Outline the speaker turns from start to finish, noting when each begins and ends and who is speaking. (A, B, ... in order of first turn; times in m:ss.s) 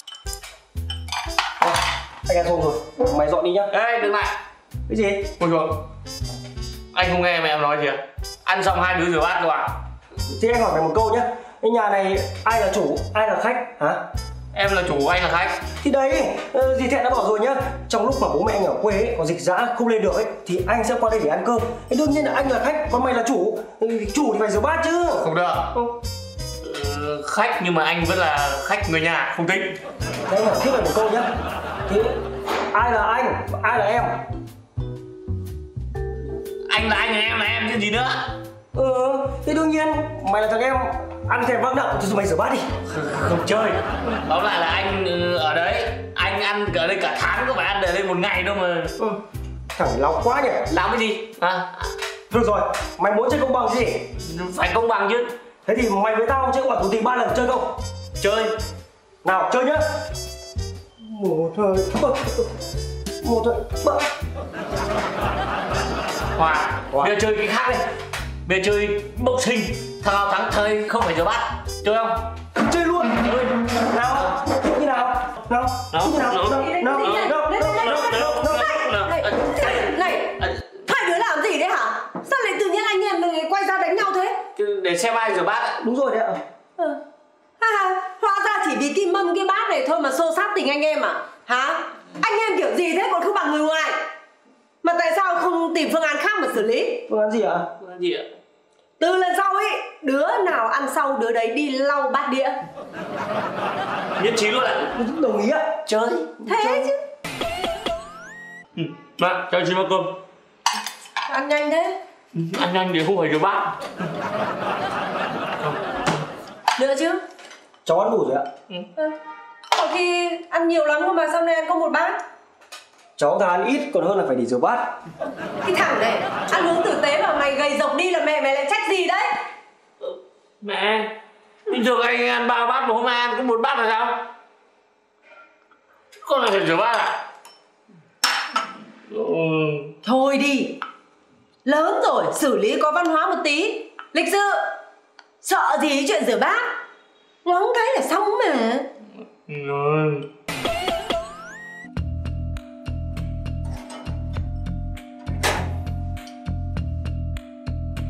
0:01.6-0:03.7 A
0:03.7-0:04.3 B
0:04.9-0:05.3 A
0:05.4-0:05.8 B
0:06.9-0:09.8 B
0:10.3-0:14.0 A
0:14.5-0:15.6 B
0:15.8-0:25.3 A
0:25.2-0:25.7 B
0:26.6-0:29.8 B
0:30.3-0:31.3 A
0:31.9-0:32.2 A
0:32.7-0:34.2 A
0:36.7-0:38.3 B
0:38.7-0:42.7 A
0:42.9-0:48.9 B
0:49.8-0:50.7 A
0:50.7-0:51.9 B
0:52.3-0:54.1 A
0:54.2-0:55.3 B
0:55.7-0:57.7 A
0:58.2-0:58.5 B
0:59.2-0:59.8 A
1:01.0-1:02.5 A
1:03.2-1:04.0 A
1:06.4-1:07.8 B
1:08.4-1:12.3 B
1:12.6-1:18.7 A
1:15.9-1:20.6 B
1:16.5-1:24.4 C
1:24.6-1:25.8 B
1:25.8-1:26.4 A
1:27.6-1:34.0 C
1:34.8-1:37.0 C
1:37.1-1:37.7 A
1:37.8-1:38.3 B
1:39.0-1:42.6 C
1:44.2-1:44.9 B
1:45.0-1:45.7 A
1:45.9-1:46.3 B
1:46.4-1:46.9 A
1:46.5-1:47.0 C
1:48.8-1:50.2 B
1:51.3-1:52.0 C
1:52.3-1:53.8 B
1:56.8-1:57.2 C
1:57.8-1:58.5 A
1:59.7-2:02.2 C
2:03.2-2:04.9 A
2:05.6-2:09.3 C
2:10.0-2:11.1 B
2:11.7-2:14.2 B
2:16.2-2:17.2 B
2:19.1-2:19.9 B
2:20.0-2:20.8 C
2:21.6-2:24.7 C
2:25.4-2:26.7 C
2:27.4-2:28.9 C
2:29.5-2:30.3 B